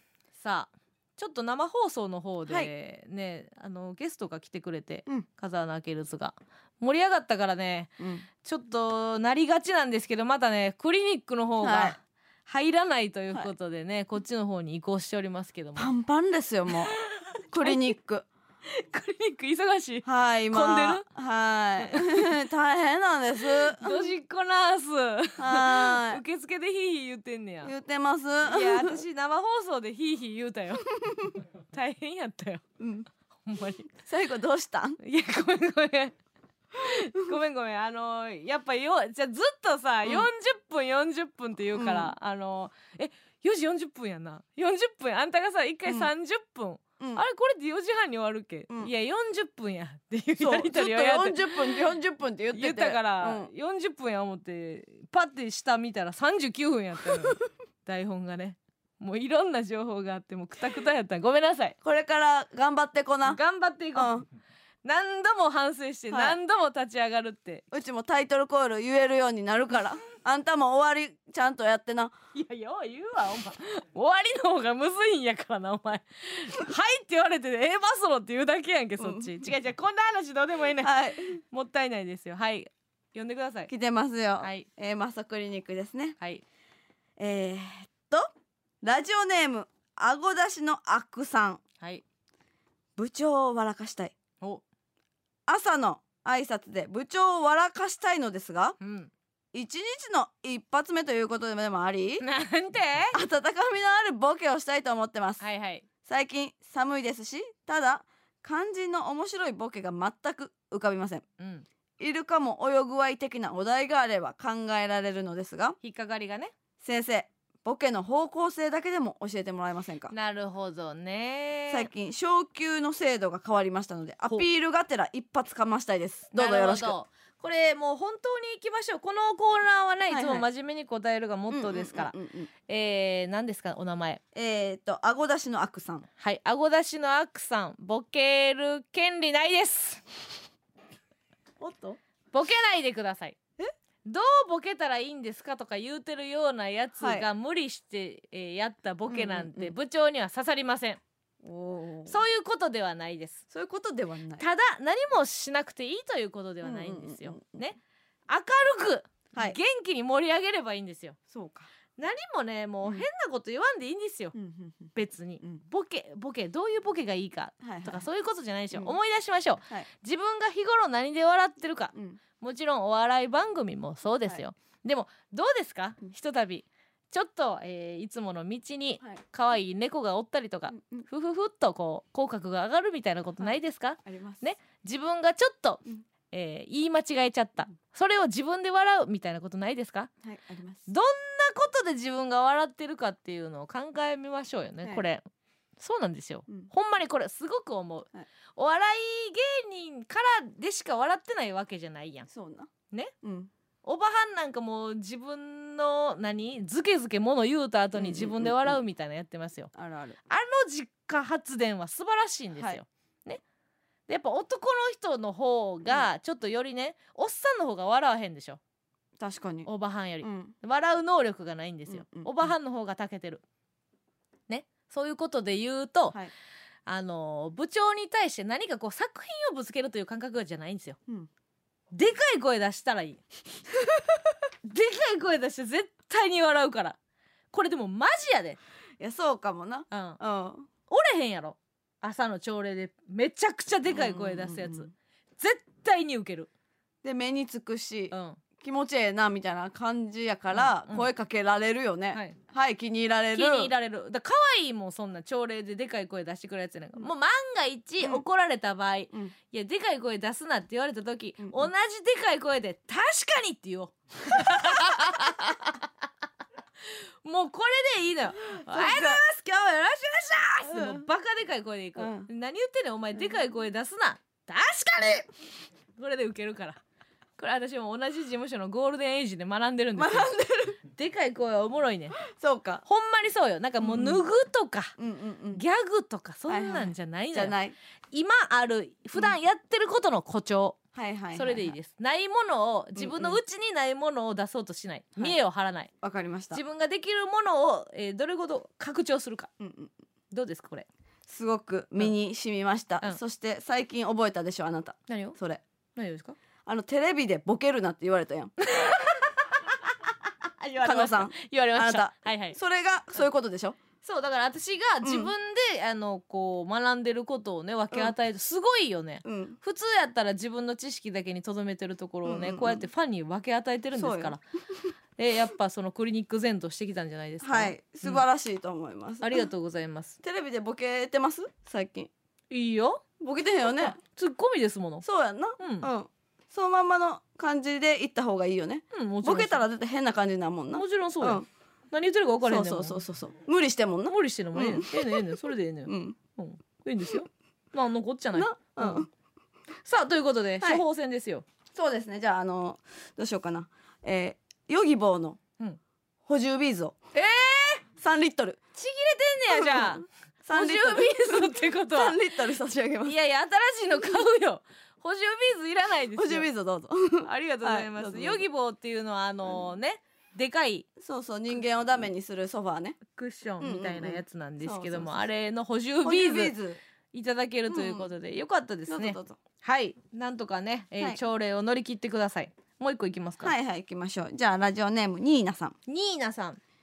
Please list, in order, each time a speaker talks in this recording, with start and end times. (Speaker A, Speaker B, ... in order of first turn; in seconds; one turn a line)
Speaker A: 0.3-15.9
Speaker B: 8.0-8.2
Speaker B: 11.6-12.0
Speaker B: 15.8-16.9
Speaker A: 17.0-17.8
Speaker B: 17.5-18.2
Speaker A: 18.7-21.0
Speaker B: 20.0-24.1
Speaker A: 21.9-22.3
Speaker A: 23.7-27.7
Speaker B: 25.4-26.2
Speaker B: 27.6-29.0
Speaker A: 28.4-30.9
Speaker B: 30.9-31.4
Speaker A: 31.7-32.6
Speaker B: 32.8-33.1
Speaker A: 33.5-33.9
Speaker B: 33.9-35.0
Speaker A: 35.0-36.1
Speaker A: 36.8-51.5
Speaker B: 41.7-42.1
Speaker B: 45.9-46.1
Speaker B: 50.4-53.5
Speaker A: 52.5-61.8
Speaker B: 61.8-63.4
Speaker A: 63.3-64.1
Speaker B: 64.0-64.2
Speaker A: 64.8-67.7
Speaker B: 66.1-66.4
Speaker B: 67.7-72.1
Speaker A: 72.3-83.7
Speaker B: 79.0-79.4
Speaker B: 80.8-81.4
Speaker B: 83.7-86.2
Speaker A: 84.4-84.7
Speaker B: 87.2-88.2
Speaker B: 88.8-91.6
Speaker B: 93.0-94.2
Speaker B: 95.5-98.8
Speaker A: 98.8-99.1
Speaker B: 99.5-102.2
Speaker A: 102.2-103.2
Speaker B: 103.1-105.4
Speaker A: 105.4-105.8
Speaker B: 106.0-111.2
Speaker A: 111.4-111.7
Speaker B: 112.0-115.8
Speaker A: 115.8-116.5
Speaker B: 116.8-120.1
Speaker A: 120.1-121.9
Speaker B: 121.7-127.0
Speaker A: 126.3-132.1
Speaker B: 130.1-130.5
Speaker B: 131.5-132.5
Speaker A: 132.7-134.2
Speaker B: 134.3-136.1
Speaker A: 136.2-140.1
Speaker B: 141.6-142.0
Speaker A: 142.3-143.4
Speaker A: 144.1-151.0
Speaker B: 147.0-147.3
Speaker B: 149.1-149.8
Speaker B: 151.4-152.2
Speaker A: 152.1-153.4
Speaker B: 153.5-154.4
Speaker A: 154.4-161.2
Speaker B: 156.6-157.6
Speaker B: 161.3-161.7
Speaker A: 162.0-164.3
Speaker B: 164.3-165.6
Speaker A: 164.9-190.1
Speaker B: 167.6-168.1
Speaker B: 168.7-169.0
Speaker B: 171.9-172.2
Speaker B: 180.7-181.1
Speaker B: 183.4-184.5
Speaker B: 190.2-190.9
Speaker A: 190.9-195.2
Speaker A: 195.8-202.3
Speaker B: 202.3-202.7
Speaker B: 203.2-203.5
Speaker A: 203.8-209.7
Speaker B: 208.0-208.8
Speaker B: 209.8-210.2
Speaker A: 210.3-213.4
Speaker B: 212.6-212.8
Speaker A: 214.1-218.6
Speaker B: 219.2-219.7
Speaker A: 219.7-223.4
Speaker B: 220.2-220.6
Speaker B: 221.9-222.5
Speaker A: 224.5-226.2
Speaker A: 226.9-231.0
Speaker A: 231.9-233.2
Speaker A: 234.6-237.0
Speaker A: 237.5-238.6
Speaker B: 239.0-240.7
Speaker A: 239.9-240.2
Speaker A: 240.9-246.5
Speaker B: 243.9-244.9
Speaker B: 247.0-253.7
Speaker A: 248.1-248.4
Speaker A: 250.5-251.1
Speaker A: 252.1-252.4
Speaker A: 253.3-265.8
Speaker B: 261.4-261.7
Speaker B: 264.4-265.3
Speaker A: 267.2-275.3
Speaker B: 268.5-269.2
Speaker B: 270.6-271.0
Speaker B: 271.9-272.3
Speaker A: 275.9-276.8
Speaker A: 277.4-280.3
Speaker B: 279.9-280.8
Speaker A: 280.9-282.2
Speaker B: 282.2-282.8
Speaker A: 282.8-284.9
Speaker B: 283.8-284.2
Speaker B: 285.0-285.6
Speaker A: 285.5-287.6
Speaker B: 286.5-287.8
Speaker A: 288.1-290.8
Speaker B: 290.9-291.8
Speaker A: 291.3-295.9
Speaker B: 292.9-293.4
Speaker B: 296.0-296.6
Speaker A: 296.5-299.5
Speaker B: 299.6-299.9
Speaker A: 300.3-300.9
Speaker B: 301.3-305.6
Speaker A: 305.1-305.4
Speaker A: 305.9-306.4
Speaker B: 306.6-308.6
Speaker A: 308.6-309.9
Speaker A: 310.6-312.6
Speaker B: 310.8-313.8
Speaker A: 314.0-324.4
Speaker B: 315.0-315.3
Speaker B: 319.2-319.6
Speaker B: 322.2-322.9
Speaker B: 323.9-324.9
Speaker A: 325.2-328.2
Speaker B: 327.4-329.5
Speaker A: 329.2-330.2
Speaker B: 330.2-332.1
Speaker A: 332.5-333.0
Speaker B: 333.2-334.0
Speaker A: 333.8-335.0
Speaker B: 335.0-341.4
Speaker A: 335.6-335.9
Speaker A: 338.9-339.6
Speaker A: 340.8-343.0
Speaker B: 342.4-345.2
Speaker A: 344.1-349.1
Speaker B: 345.9-346.2
Speaker B: 348.3-349.1
Speaker A: 349.8-351.4
Speaker B: 351.7-355.4
Speaker B: 356.2-357.0
Speaker A: 357.1-357.8
Speaker B: 358.0-358.6
Speaker A: 358.8-362.2
Speaker B: 359.5-363.1
Speaker A: 363.0-366.5
Speaker B: 366.1-368.4
Speaker A: 367.2-370.9
Speaker B: 371.0-373.0
Speaker A: 373.1-376.5
Speaker B: 373.6-375.3
Speaker B: 376.0-376.8
Speaker A: 377.1-383.5
Speaker B: 377.7-378.1
Speaker B: 378.9-379.4
Speaker B: 383.4-385.8
Speaker A: 385.9-386.6